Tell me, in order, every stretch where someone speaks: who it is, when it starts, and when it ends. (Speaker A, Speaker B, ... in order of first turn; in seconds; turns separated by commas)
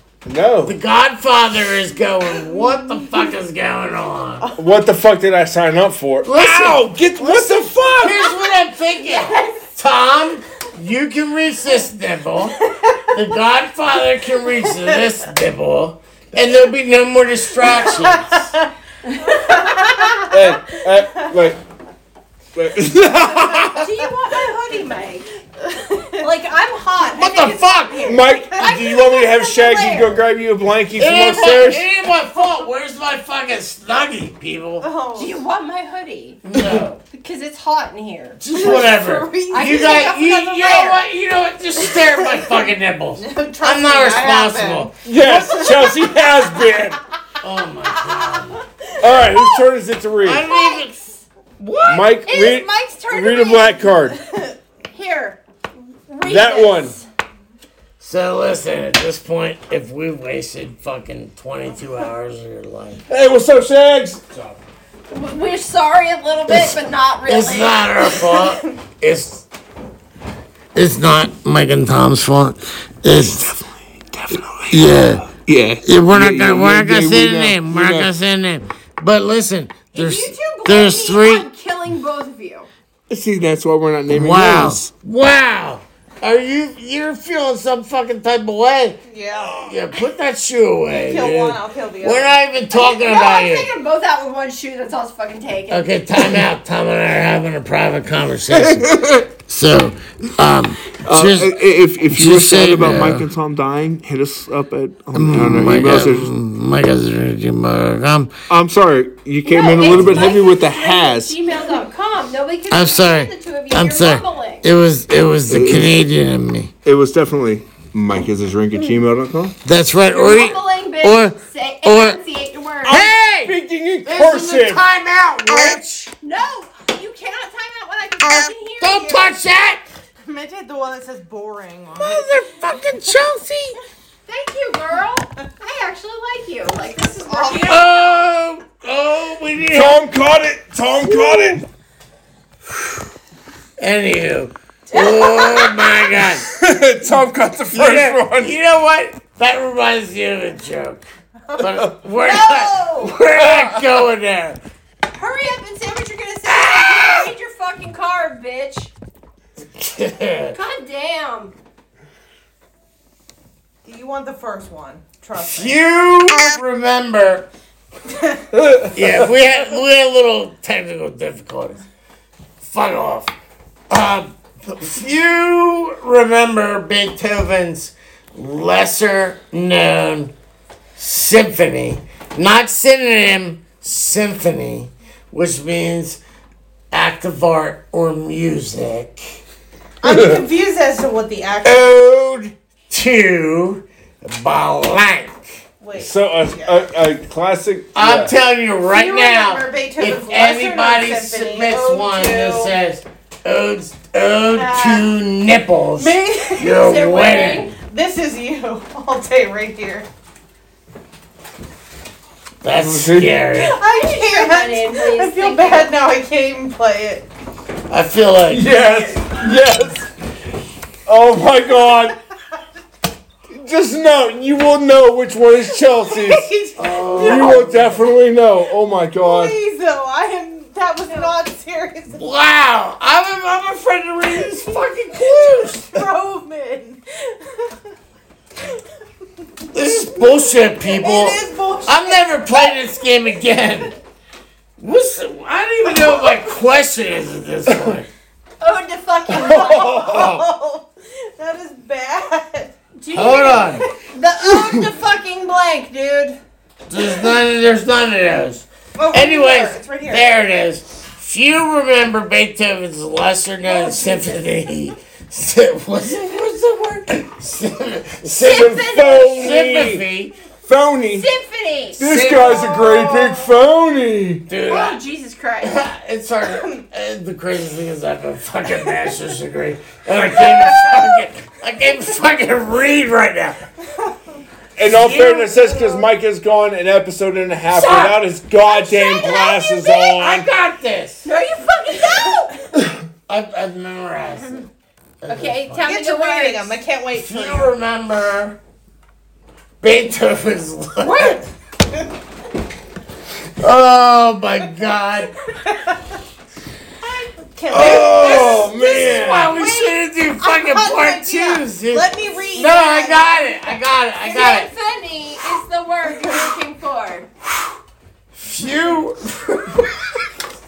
Speaker A: 0.3-0.8, Speaker B: 0.7-4.5, Speaker A: 4.6-8.2, Speaker B: 6.2-6.9, Speaker B: 8.0-18.5, Speaker C: 9.1-9.6, Speaker D: 17.6-18.7, Speaker C: 19.1-20.4, Speaker D: 19.2-20.4, Speaker A: 20.3-21.6, Speaker A: 22.6-23.9, Speaker C: 23.7-25.3, Speaker D: 25.6-26.3, Speaker C: 26.2-30.2, Speaker B: 27.1-28.2, Speaker A: 28.1-31.9, Speaker B: 30.9-34.9, Speaker D: 34.8-35.4, Speaker C: 35.2-36.4, Speaker B: 36.5-37.0, Speaker A: 36.5-36.9, Speaker C: 37.1-38.9, Speaker B: 38.4-44.9, Speaker D: 38.5-41.0, Speaker C: 39.5-41.0, Speaker D: 41.9-46.8, Speaker A: 45.0-47.0, Speaker B: 47.4-48.6, Speaker A: 49.0-50.5, Speaker B: 50.2-51.0, Speaker C: 50.5-50.9, Speaker C: 51.6-54.1, Speaker A: 51.9-54.2, Speaker C: 54.9-57.1, Speaker A: 56.2-57.0, Speaker B: 58.0-63.0, Speaker A: 63.1-64.5, Speaker C: 65.1-68.2, Speaker B: 66.5-69.5, Speaker B: 70.8-73.7, Speaker A: 74.1-78.1, Speaker B: 74.7-75.3, Speaker B: 75.8-81.5, Speaker C: 79.9-82.7, Speaker A: 83.1-84.9, Speaker B: 84.1-93.7, Speaker D: 89.1-89.7, Speaker D: 90.9-92.4, Speaker C: 92.7-95.9, Speaker B: 95.7-101.6, Speaker A: 98.5-99.3, Speaker A: 101.1-106.3, Speaker B: 102.1-103.3, Speaker B: 105.1-108.3, Speaker A: 108.5-111.4, Speaker C: 109.5-114.6, Speaker B: 109.9-110.3, Speaker B: 112.7-116.7, Speaker A: 115.5-116.0, Speaker A: 116.8-119.5, Speaker B: 119.6-122.2, Speaker C: 120.1-123.1, Speaker A: 122.9-124.8, Speaker B: 122.9-126.1, Speaker C: 126.2-129.3, Speaker B: 128.8-129.8, Speaker D: 130.2-132.3, Speaker B: 132.0-133.8, Speaker C: 134.3-137.9, Speaker D: 137.2-137.9, Speaker B: 137.6-140.0, Speaker A: 139.7-141.6, Speaker B: 143.8-146.5, Speaker D: 144.9-145.5, Speaker C: 144.9-145.7, Speaker A: 146.4-148.6, Speaker B: 147.7-154.6, Speaker C: 152.2-153.2, Speaker C: 155.1-158.9, Speaker B: 156.5-157.3, Speaker B: 159.8-160.6, Speaker C: 160.5-161.5, Speaker D: 163.8-165.8, Speaker B: 165.4-167.5, Speaker D: 168.1-168.4, Speaker A: 168.6-169.3, Speaker B: 168.9-171.8, Speaker B: 172.6-173.3, Speaker B: 173.9-180.3, Speaker B: 180.9-186.2, Speaker B: 186.9-189.4, Speaker D: 190.0-192.0, Speaker A: 190.1-190.4, Speaker A: 191.6-192.5, Speaker B: 192.9-195.6, Speaker D: 195.8-196.8, Speaker A: 196.0-198.3, Speaker B: 197.9-207.7, Speaker D: 198.8-202.8, Speaker D: 204.5-205.1, Speaker D: 205.9-206.8, Speaker C: 206.6-207.7, Speaker D: 207.8-210.1, Speaker B: 212.6-213.8, Speaker A: 212.8-213.4, Speaker D: 213.6-217.3, Speaker C: 213.8-215.9, Speaker B: 217.9-218.7, Speaker A: 218.5-220.1, Speaker A: 221.1-222.2, Speaker A: 223.5-226.5, Speaker D: 226.1-227.7, Speaker B: 226.8-227.9, Speaker A: 227.2-229.6, Speaker D: 229.2-232.3, Speaker C: 231.1-231.4, Speaker B: 232.1-236.1, Speaker D: 234.6-237.7, Speaker B: 239.7-243.9, Speaker D: 240.2-242.8, Speaker B: 244.8-248.1, Speaker C: 248.6-250.0, Speaker A: 249.3-250.4, Speaker D: 249.4-252.8, Speaker C: 253.0-256.4, Speaker B: 253.1-253.9, Speaker B: 256.9-270.3, Speaker D: 258.9-260.3, Speaker D: 263.7-264.3, Speaker A: 268.2-270.1, Speaker C: 268.4-269.7, Speaker A: 270.6-271.3, Speaker C: 271.1-272.0, Speaker A: 271.9-274.4, Speaker D: 272.2-273.5, Speaker B: 274.5-275.0, Speaker C: 274.7-275.8, Speaker B: 275.6-283.6, Speaker D: 276.5-276.8, Speaker D: 280.8-281.0, Speaker A: 284.8-290.5, Speaker B: 284.9-285.8, Speaker C: 287.7-290.1, Speaker B: 290.1-291.3, Speaker C: 291.2-292.6, Speaker B: 293.3-294.7, Speaker B: 295.2-295.9, Speaker C: 295.3-296.8, Speaker D: 295.8-297.8, Speaker B: 297.1-298.6, Speaker B: 299.8-301.4, Speaker C: 301.1-301.4, Speaker B: 303.6-305.3, Speaker D: 305.6-306.0, Speaker D: 307.0-308.7, Speaker A: 307.7-309.6, Speaker B: 307.8-314.7, Speaker D: 309.5-313.8, Speaker C: 314.2-317.3, Speaker B: 318.4-320.0